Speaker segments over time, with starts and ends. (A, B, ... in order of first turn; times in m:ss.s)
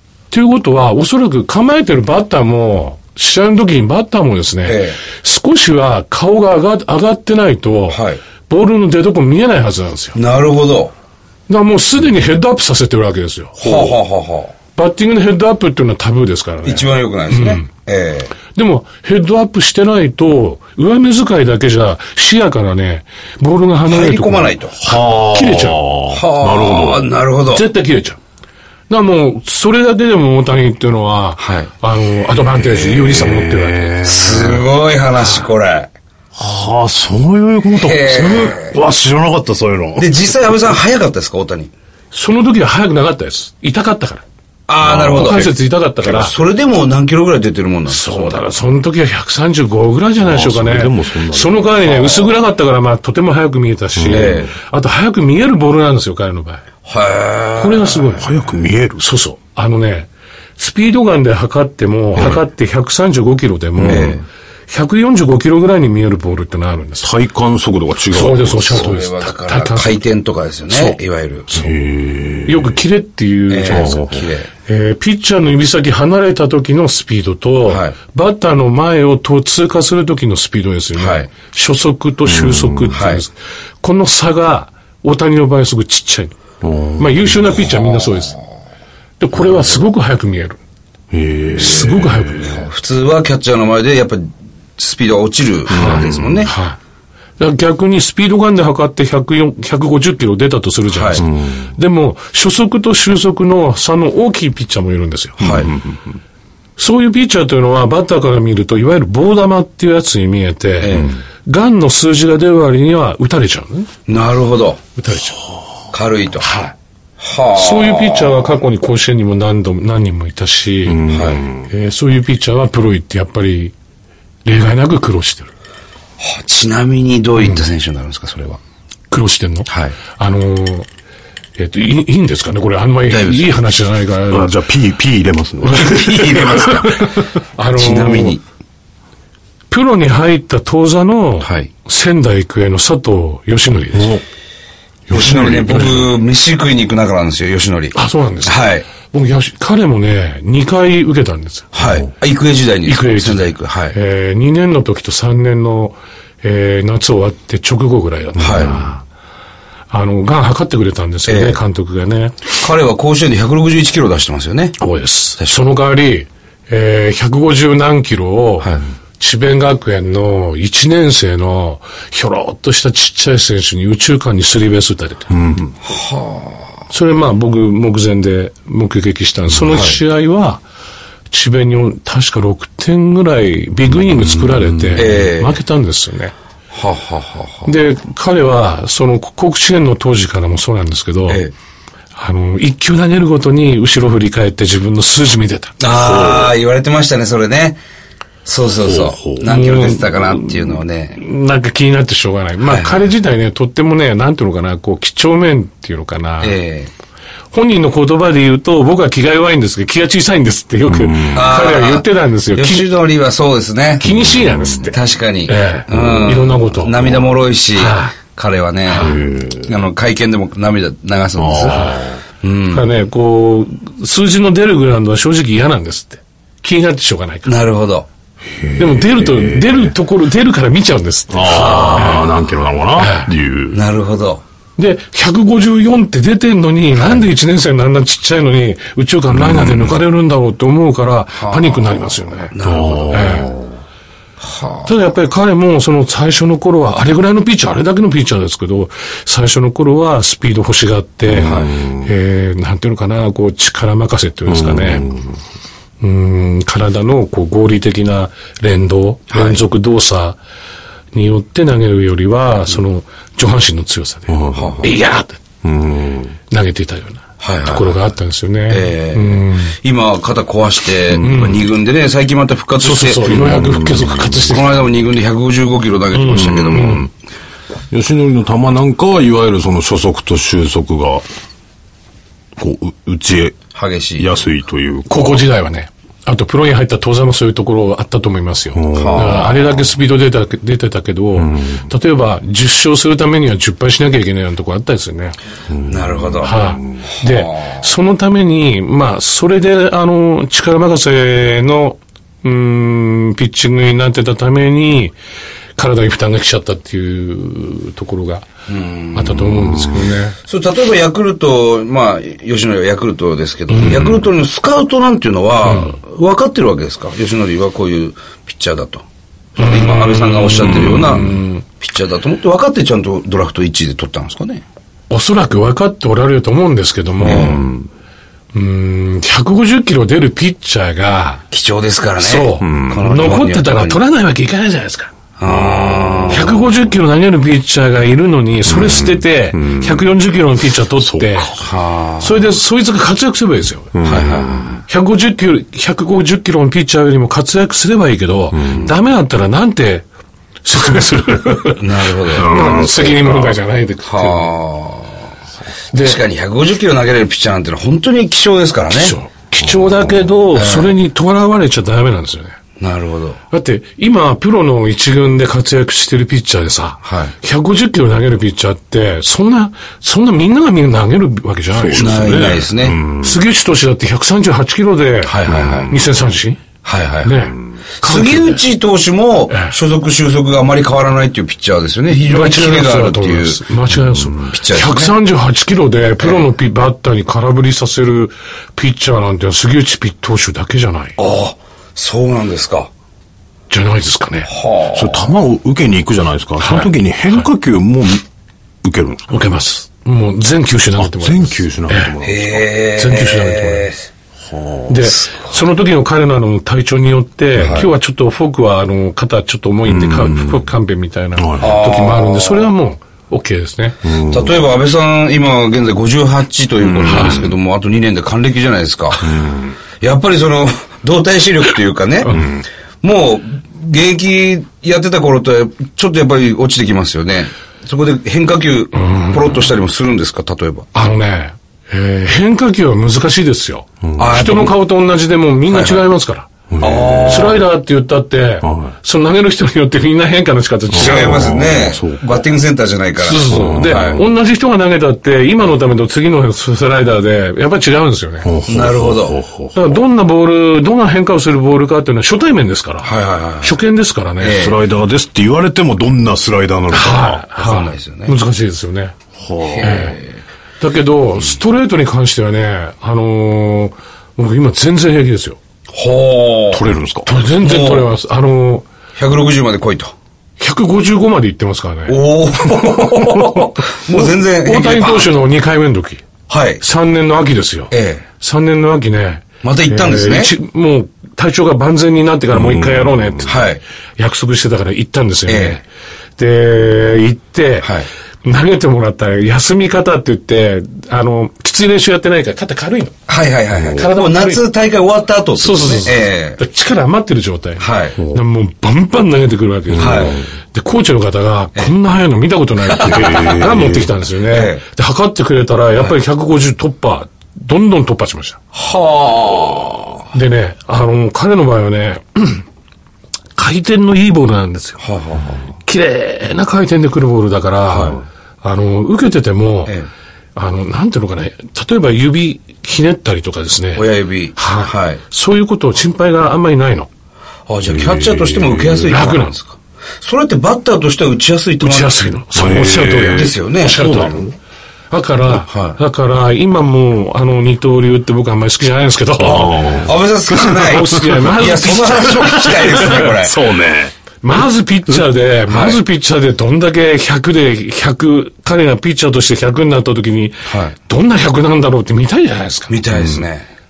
0:00.3-0:10.2 A
0:04.6-0:05.0 B
0:07.9-0:08.2 B
0:10.1-0:10.9 B
0:11.5-0:13.9 A
0:13.6-0:14.5 B
0:14.8-0:17.7 A
0:16.6-0:18.3 B
0:18.5-0:25.8 A
0:23.9-0:24.8 B
0:24.8-0:27.1 C
0:26.1-0:27.7 B
0:27.5-0:28.2 A
0:28.9-0:34.0 A
0:31.4-0:31.7 B
0:32.6-0:34.7 C
0:34.0-0:35.9 B
0:36.4-0:40.3 C
0:37.8-0:38.8 B
0:40.0-0:41.7 B
0:42.1-0:44.2 A
0:44.7-0:48.3 B
0:44.8-0:45.5 C
0:45.1-0:46.4 A
0:47.9-0:56.6 A
0:50.2-0:51.7 C
0:51.9-0:52.3 B
0:54.0-0:54.5 C
0:54.1-0:54.5 B
0:56.8-0:58.2 B
0:57.6-0:58.3 A
0:58.2-0:59.0 C
0:59.0-1:07.1 A
1:02.1-1:02.4 C
1:03.8-1:04.2 C
1:03.8-1:04.2 B
1:07.0-1:08.9 C
1:08.1-1:10.0 A
1:08.6-1:11.5 B
1:10.7-1:11.7 A
1:11.5-1:12.8 C
1:12.4-1:14.1 A
1:13.5-1:14.5 B
1:13.6-1:14.2 C
1:14.7-1:26.3 A
1:17.7-1:17.9 B
1:21.0-1:21.3 B
1:22.2-1:23.0 C
1:22.9-1:23.2 B
1:26.6-1:27.7 C
1:27.0-1:28.4 A
1:29.2-1:30.6 A
1:29.4-1:29.7 B
1:31.1-1:32.6 C
1:31.6-1:32.6 A
1:32.4-1:36.5 B
1:35.7-1:36.5 C
1:35.7-1:36.8 A
1:37.4-1:45.7 A
1:40.9-1:41.2 B
1:41.2-1:41.7 C
1:45.4-1:45.7 B
1:45.4-1:46.1 C
1:46.8-1:53.9 A
1:50.8-1:51.2 B
1:54.1-1:54.8 B
1:55.0-1:55.4 A
1:55.9-1:56.5 B
1:56.4-1:56.7 A
1:57.2-1:58.6 B
1:57.5-2:01.1 A
2:00.9-2:01.7 C
2:01.1-2:01.4 B
2:01.6-2:03.7 A
2:04.4-2:05.5 A
2:06.2-2:08.6 B
2:09.1-2:10.9 A
2:09.7-2:09.9 B
2:11.6-2:14.5 A
2:13.1-2:13.5 B
2:14.3-2:15.9 C
2:15.6-2:18.4 A
2:15.7-2:17.2 B
2:17.8-2:18.4 B
2:19.7-2:24.2 A
2:21.4-2:21.7 B
2:23.9-2:24.2 C
2:25.1-2:26.1 C
2:25.1-2:28.9 B
2:25.2-2:26.1 A
2:27.9-2:31.7 A
2:31.7-2:33.9 B
2:31.8-2:32.1 C
2:32.9-2:39.0 A
2:38.4-2:38.8 C
2:38.4-2:38.8 B
2:39.9-2:42.4 A
2:41.3-2:41.6 B
2:42.6-2:44.8 B
2:44.8-2:55.3 A
2:55.3-2:55.8 C
2:55.9-2:56.6 B
2:56.9-3:00.6 A
2:59.5-2:59.9 C
2:59.7-3:00.0 B
3:01.3-3:06.3 A
3:04.0-3:05.3 C
3:04.9-3:05.6 B
3:06.7-3:07.7 B
3:07.6-3:11.4 A
3:11.3-3:11.5 B
3:12.2-3:15.8 A
3:15.8-3:17.8 B
3:15.9-3:16.5 C
3:18.4-3:21.2 B
3:18.8-3:19.5 C
3:19.4-3:26.6 A
3:22.6-3:23.0 B
3:26.4-3:26.9 B
3:27.5-3:32.9 A
3:30.9-3:31.6 C
3:31.3-3:34.2 B
3:34.0-3:38.2 A
3:34.1-3:34.9 C
3:34.9-3:42.9 B
3:35.9-3:36.2 C
3:38.9-3:39.8 C
3:41.4-3:42.2 C
3:41.6-3:42.0 A
3:42.7-3:47.6 A
3:47.4-3:48.1 B
3:48.4-3:49.9 C
3:48.8-3:52.3 A
3:51.3-3:53.8 C
3:52.9-3:53.3 A
3:53.7-3:54.4 B
3:54.8-4:02.5 A
3:59.3-4:00.0 C
4:01.4-4:03.4 B
4:02.6-4:03.8 C
4:03.1-4:03.5 A
4:04.4-4:04.9 B
4:04.8-4:15.1 A
4:11.3-4:12.1 C
4:11.4-4:11.7 B
4:14.5-4:15.4 C
4:16.0-4:20.4 A
4:19.3-4:19.6 B
4:21.1-4:25.4 A
4:24.3-4:24.9 C
4:24.5-4:24.9 B
4:25.6-4:26.4 C
4:26.5-4:29.8 A
4:27.4-4:28.0 B
4:28.7-4:33.6 B
4:31.1-4:31.4 C
4:31.2-4:31.7 A
4:32.8-4:34.8 A
4:33.2-4:34.7 C
4:34.4-4:37.1 B
4:36.1-4:37.1 A
4:36.4-4:37.1 C
4:37.9-4:41.2 C
4:42.6-4:43.6 C
4:43.7-4:44.3 B
4:44.2-4:45.4 C
4:45.1-4:55.4 A
4:48.7-4:49.6 C
4:48.9-4:49.6 B
4:51.4-4:51.9 C
4:55.7-4:57.0 C
4:55.9-4:57.8 B
4:56.4-5:05.1 A
5:05.8-5:08.5 A
5:08.7-5:09.4 B
5:09.1-5:10.4 A
5:09.4-5:10.0 C
5:10.4-5:19.0 B
5:13.7-5:14.2 A
5:15.6-5:16.0 A
5:19.6-5:21.6 A
5:19.6-5:24.6 B
5:20.6-5:21.3 C
5:25.1-5:27.6 A
5:27.2-5:27.9 C
5:27.2-5:27.6 B
5:28.5-5:31.4 A
5:31.5-5:34.0 B
5:32.2-5:35.1 A
5:32.6-5:33.1 C
5:35.4-5:36.6 B
5:35.5-5:36.8 C
5:36.3-5:41.6 A
5:38.6-5:40.1 C
5:41.0-5:41.7 C
5:41.6-5:42.4 B
5:42.2-5:44.0 A
5:43.9-5:44.8 C
5:44.0-5:44.7 B
5:44.9-5:50.0 A
5:48.5-5:48.9 C
5:50.6-5:54.5 A
5:51.8-5:52.5 B
5:52.3-5:53.6 C
5:54.0-5:55.2 B
5:55.9-5:56.2 A
5:56.0-5:59.1 B
5:58.9-6:02.6 A
5:59.6-6:00.3 C
6:00.5-6:00.9 B
6:02.8-6:03.4 B
6:03.5-6:12.5 A
6:07.0-6:07.3 B
6:11.7-6:13.4 C
6:12.0-6:13.0 B
6:13.2-6:16.6 A
6:15.2-6:15.9 B
6:15.5-6:15.9 C
6:16.8-6:17.4 B
6:17.2-6:18.6 A
6:18.0-6:23.6 B
6:19.5-6:19.8 A
6:22.1-6:31.2 A
6:23.9-6:24.4 C
6:24.5-6:25.1 B
6:31.2-6:32.9 B
6:33.7-6:34.5 A
6:34.5-6:35.3 B
6:34.9-6:38.2 C
6:36.6-6:37.4 A
6:38.8-6:39.4 C
6:39.3-6:42.1 A
6:41.0-6:42.7 C
6:42.2-6:44.0 B
6:43.0-6:43.9 A
6:44.4-6:45.0 C
6:44.9-6:54.0 A
6:47.6-6:47.9 C
6:47.6-6:47.9 B
6:49.9-6:50.7 C
6:51.4-6:51.8 C
6:51.6-6:52.7 B
6:54.0-6:54.6 C
6:54.3-6:59.3 B
6:56.8-6:57.5 C
6:57.0-6:57.5 A
6:59.2-6:59.8 C
7:00.0-7:02.4 B
7:02.2-7:02.6 A
7:03.0-7:10.9 B
7:09.0-7:09.6 A
7:10.9-7:16.5 A
7:14.0-7:14.4 C
7:14.2-7:14.8 B
7:15.7-7:16.0 B
7:16.7-7:17.6 C
7:16.8-7:17.6 B
7:17.3-7:21.6 A
7:18.6-7:18.9 C
7:20.9-7:22.5 C
7:20.9-7:24.2 B
7:23.2-7:28.5 A
7:23.4-7:24.2 C
7:28.4-7:30.0 C
7:28.7-7:29.4 B
7:29.7-7:34.7 A
7:33.0-7:33.8 B
7:34.4-7:34.8 B
7:34.5-7:37.4 C
7:36.9-7:39.1 A
7:37.6-7:38.4 B
7:39.4-7:40.0 C
7:39.7-7:40.3 B
7:39.8-7:40.2 A
7:40.8-7:45.6 A
7:45.9-7:46.8 B
7:46.7-7:47.3 C
7:47.2-7:48.9 A
7:47.6-7:48.1 B
7:49.2-7:50.1 B
7:50.6-7:52.2 A
7:52.1-7:55.3 B
7:53.1-7:56.2 A
7:56.5-7:56.8 B
7:56.8-8:05.8 A
7:57.9-7:58.2 B
7:59.6-8:00.5 B
8:02.5-8:03.5 C
8:03.4-8:03.8 B
8:05.5-8:05.8 B
8:06.4-8:07.9 A
8:07.8-8:08.1 B
8:08.4-8:13.2 A
8:13.3-8:16.6 B
8:13.7-8:14.1 C
8:13.9-8:14.6 A
8:15.6-8:28.6 A
8:17.8-8:18.2 B
8:19.9-8:20.5 C
8:20.0-8:20.4 B
8:22.9-8:23.5 B
8:23.0-8:24.1 C
8:24.5-8:24.8 B
8:28.7-8:30.2 B
8:30.3-8:32.6 A
8:33.6-8:35.0 A
8:35.0-8:35.6 B
8:35.7-8:40.0 A
8:37.9-8:38.2 B
8:40.6-8:47.1 A
8:44.0-8:45.2 B
8:47.7-8:52.1 B
8:47.8-8:49.2 C
8:49.1-8:49.6 A
8:51.8-8:54.5 A
8:52.5-8:54.5 C
8:53.3-8:54.1 B
8:55.1-9:00.1 A
8:55.7-8:56.0 B
8:59.4-9:04.1 C
9:00.0-9:03.6 B
9:00.6-9:03.3 A
9:04.4-9:13.0 A
9:05.7-9:06.0 B
9:10.7-9:10.9 B
9:12.9-9:13.6 B
9:13.1-9:13.5 C